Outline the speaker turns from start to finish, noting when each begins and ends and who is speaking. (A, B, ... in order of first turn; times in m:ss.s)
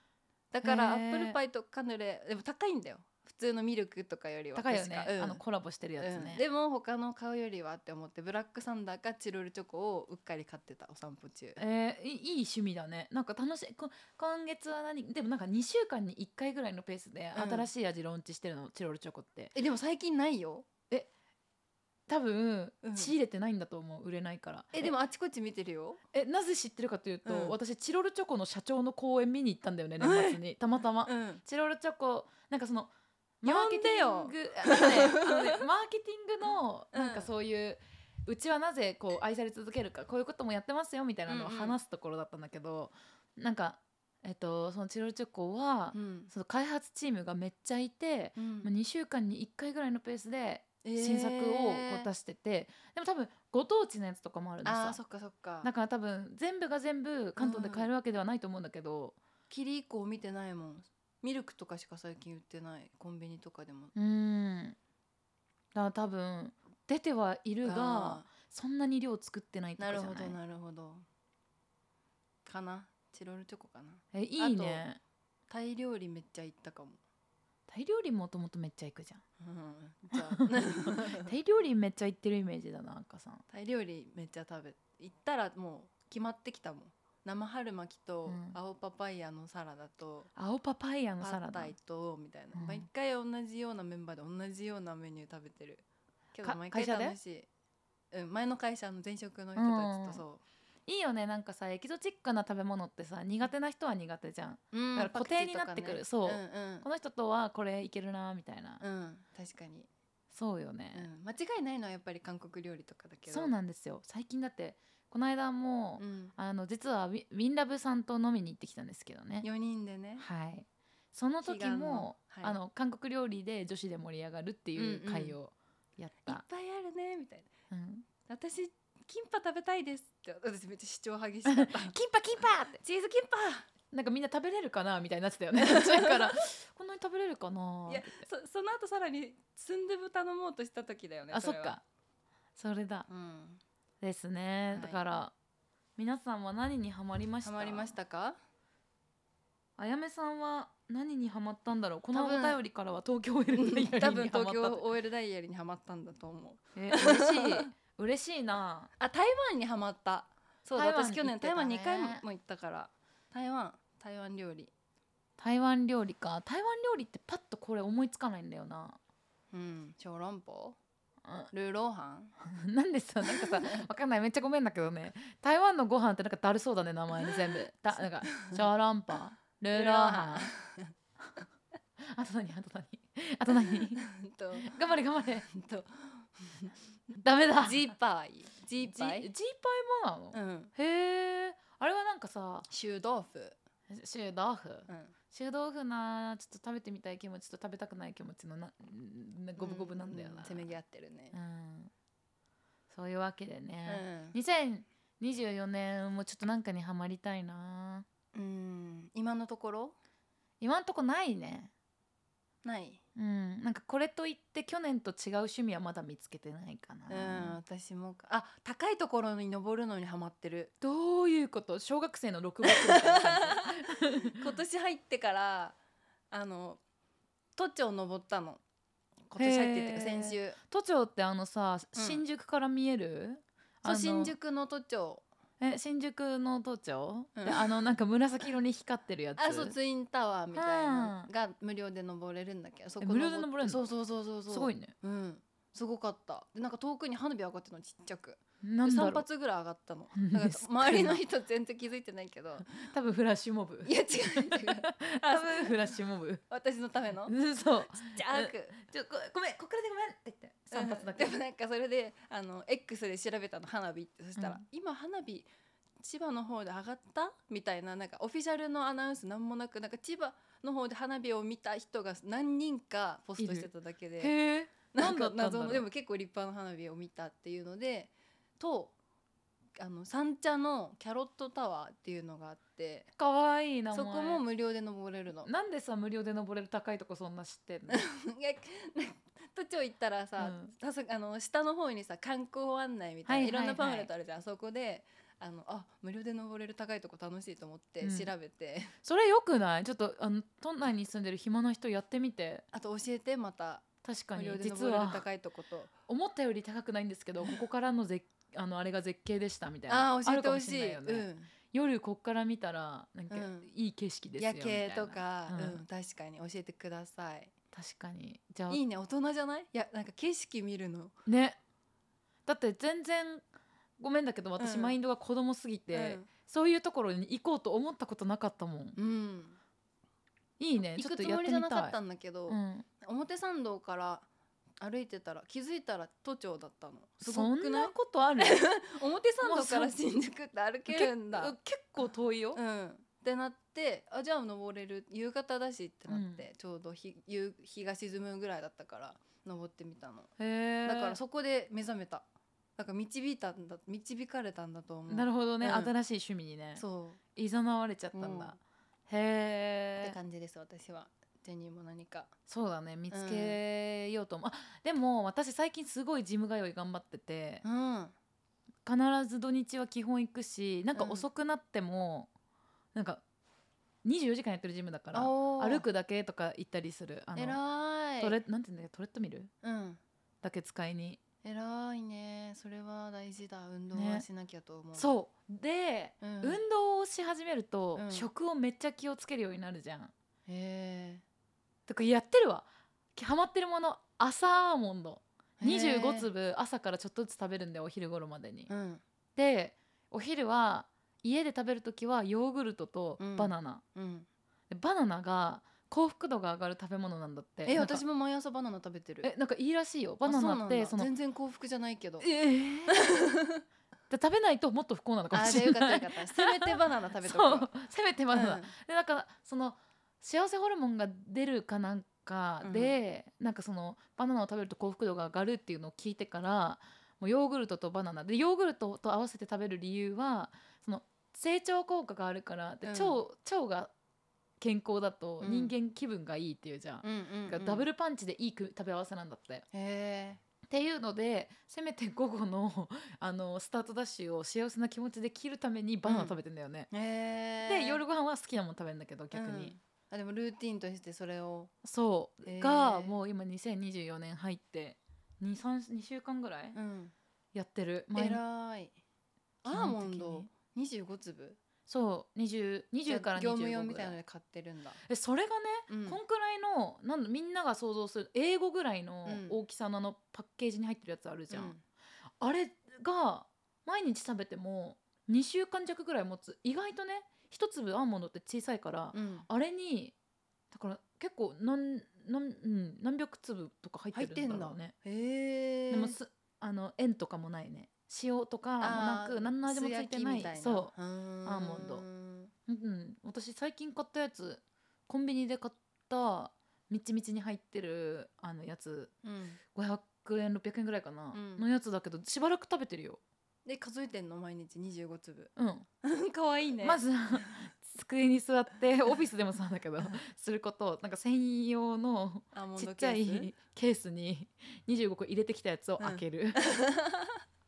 0:00.5-0:05.4 A
0:00.6-0:01.4 B
0:04.5-0:06.4 B
0:06.0-0:11.6 A
0:11.6-0:19.5 B
0:17.3-0:17.7 A
0:19.5-0:20.7 A
0:22.1-0:24.9 B
0:22.8-0:23.1 A
0:24.7-0:26.0 A
0:26.1-0:55.0 B
0:27.2-0:27.5 A
0:30.0-0:30.4 A
0:31.0-0:31.4 A
0:33.4-0:35.6 A
0:36.9-0:37.3 A
0:41.3-0:41.8 A
0:45.9-0:46.3 A
0:48.4-0:48.7 A
0:50.8-0:52.1 A
0:54.6-0:55.7 A
0:55.6-0:59.2 B
0:57.4-0:57.9 A
0:59.5-1:03.9 A
1:03.9-1:04.8 B
1:05.7-1:10.4 B
1:07.6-1:08.3 A
1:09.8-1:11.0 A
1:12.4-1:14.8 A
1:14.1-1:15.0 B
1:15.5-1:17.0 A
1:17.7-1:19.2 B
1:19.4-1:21.3 A
1:20.2-1:23.4 B
1:23.5-1:30.3 A
1:28.2-1:28.6 B
1:30.4-1:31.7 B
1:31.2-1:35.8 A
1:32.5-1:32.8 B
1:36.3-1:37.5 A
1:36.4-1:37.2 B
1:38.1-1:40.4 A
1:39.6-1:40.2 B
1:40.9-1:48.8 B
1:44.7-1:46.8 A
1:48.8-1:49.9 A
1:50.3-1:51.1 B
1:50.9-1:53.5 A
1:53.3-1:59.5 B
1:56.0-1:56.3 A
1:59.4-2:00.2 A
2:00.2-2:06.4 B
2:01.4-2:02.6 A
2:04.8-2:05.4 A
2:06.2-2:07.5 A
2:07.7-2:08.0 B
2:08.3-2:12.0 A
2:11.5-2:12.8 B
2:12.8-2:13.7 A
2:13.9-2:18.2 B
2:15.6-2:16.2 A
2:17.9-2:21.8 A
2:21.3-2:21.8 B
2:22.6-2:23.1 B
2:23.1-2:23.6 A
2:24.0-2:25.3 B
2:24.7-2:25.0 A
2:26.0-2:27.9 B
2:27.4-2:28.4 A
2:29.8-2:34.8 B
2:32.1-2:32.6 A
2:33.5-2:37.7 A
2:36.7-2:38.9 B
2:39.0-2:44.7 A
2:40.8-2:42.2 B
2:45.4-2:49.0 B
2:49.5-2:50.8 A
2:51.2-2:51.5 B
2:51.5-2:52.3 A
2:52.4-3:00.5 B
2:53.2-2:53.8 A
2:58.0-2:58.6 A
2:59.7-3:00.9 A
3:02.0-3:04.0 B
3:04.0-3:04.8 A
3:04.6-3:05.5 B
3:05.5-3:09.3 A
3:07.2-3:07.9 B
3:08.8-3:12.7 B
3:10.3-3:10.7 A
3:12.7-3:13.6 A
3:13.9-3:20.7 B
3:14.9-3:15.1 A
3:19.6-3:21.4 A
3:21.3-3:21.9 B
3:22.9-3:28.0 B
3:23.8-3:24.4 A
3:28.3-3:30.0 A
3:30.6-3:31.7 B
3:32.6-3:33.0 A
3:33.2-3:37.6 B
3:37.1-3:40.7 A
3:40.8-3:44.5 B
3:42.6-3:45.8 A
3:46.3-3:46.8 A
3:47.6-3:48.6 A
3:49.3-3:50.6 A
3:49.4-3:54.3 B
3:51.9-3:52.2 A
3:53.8-3:55.2 A
3:55.6-3:59.8 B
3:57.3-3:57.8 A
3:59.4-4:12.9 A
4:00.5-4:01.3 B
4:03.0-4:03.9 B
4:04.5-4:04.9 B
4:08.6-4:09.2 B
4:10.1-4:11.2 B
4:12.8-4:16.4 B
4:13.8-4:15.9 A
4:16.5-4:17.3 A
4:17.2-4:21.4 B
4:17.9-4:18.8 A
4:20.7-4:25.4 A
4:24.4-4:24.6 B
4:26.0-4:34.3 A
4:33.4-4:33.7 B
4:34.2-4:35.8 B
4:34.9-4:38.9 A
4:39.8-4:43.1 A
4:43.2-4:44.4 B
4:43.9-4:45.5 A
4:45.4-4:48.0 B
4:47.9-4:59.0 A
4:50.4-4:50.7 B
4:53.2-4:54.1 B
4:58.0-4:58.3 B
4:59.0-5:02.6 B
5:02.7-5:05.9 A
5:04.0-5:05.2 B
5:06.1-5:15.8 B
5:09.9-5:11.5 A
5:13.3-5:13.7 A
5:14.4-5:17.5 A
5:17.7-5:18.8 B
5:18.7-5:21.1 A
5:21.2-5:21.6 B
5:22.4-5:23.4 B
5:24.0-5:29.0 B
5:24.6-5:25.0 A
5:25.9-5:26.3 A
5:29.0-5:29.6 A
5:30.6-5:32.0 B
5:30.9-5:34.2 A
5:32.5-5:32.8 B
5:34.8-5:41.5 A
5:37.2-5:38.7 B
5:39.4-5:39.9 B
5:40.9-5:42.6 B
5:42.5-5:50.3 A
5:46.1-5:46.4 B
5:50.4-5:51.2 B
5:50.8-5:52.2 A
5:52.8-5:55.9 A
5:55.1-5:56.8 B
5:56.8-5:57.2 A
5:57.3-6:00.2 B
5:58.1-5:58.5 A
6:00.0-6:02.3 A
6:02.5-6:07.6 B
6:03.1-6:03.6 A
6:07.6-6:08.1 A
6:08.8-6:12.3 B
6:10.9-6:11.2 A
6:12.9-6:13.2 B
6:14.0-6:17.6 B
6:15.1-6:15.8 A
6:17.4-6:18.4 A
6:18.2-6:19.5 B
6:19.6-6:20.0 A
6:20.4-6:21.2 B
6:21.4-6:25.1 A
6:23.9-6:24.2 B
6:24.9-6:30.1 B
6:26.2-6:26.6 A
6:27.9-6:28.3 A
6:30.5-6:31.2 A
6:31.9-6:38.7 B
6:35.6-6:36.3 A
6:38.7-6:39.0 A
6:39.4-6:43.8 B
6:43.2-6:44.3 A
6:44.7-6:48.0 B
6:47.6-6:49.3 A
6:49.2-6:51.1 B
6:50.2-6:52.3 A
6:52.2-6:53.2 B
6:52.9-6:53.6 A
6:54.1-7:13.9 B
6:55.3-6:57.7 A
6:58.3-6:58.7 A
7:02.6-7:03.0 A
7:12.8-7:13.2 A
7:14.6-7:19.6 B
7:15.4-7:15.7 A
7:17.0-7:17.9 A
7:19.7-7:20.4 A
7:20.7-7:26.9 B
7:26.0-7:26.4 A
7:26.9-7:28.0 A
7:27.6-7:29.7 B
7:29.3-7:31.7 A
7:31.8-7:36.8 B
7:32.4-7:33.2 A
7:36.7-7:37.1 A
7:37.5-7:38.4 B
7:38.1-7:38.9 A
7:39.6-7:41.6 A
7:39.7-7:40.5 B
7:41.9-7:44.2 B
7:43.1-7:45.0 A
7:45.0-7:51.7 B
7:45.9-7:46.2 A
7:49.2-7:49.6 A
7:51.5-7:51.8 A
7:52.4-8:00.1 B
7:59.1-7:59.5 A
8:00.7-8:04.9 B
8:04.1-8:06.2 A
8:05.9-8:10.9 B
8:08.8-8:12.5 A
8:11.4-8:12.0 B
8:12.7-8:19.1 B
8:19.2-8:19.6 A
8:19.7-8:23.2 B
8:21.3-8:21.6 A
8:23.6-8:25.5 A
8:25.6-8:25.9 B
8:26.0-8:27.5 A
8:26.8-8:36.6 B
8:32.5-8:33.5 A
8:36.0-8:37.4 A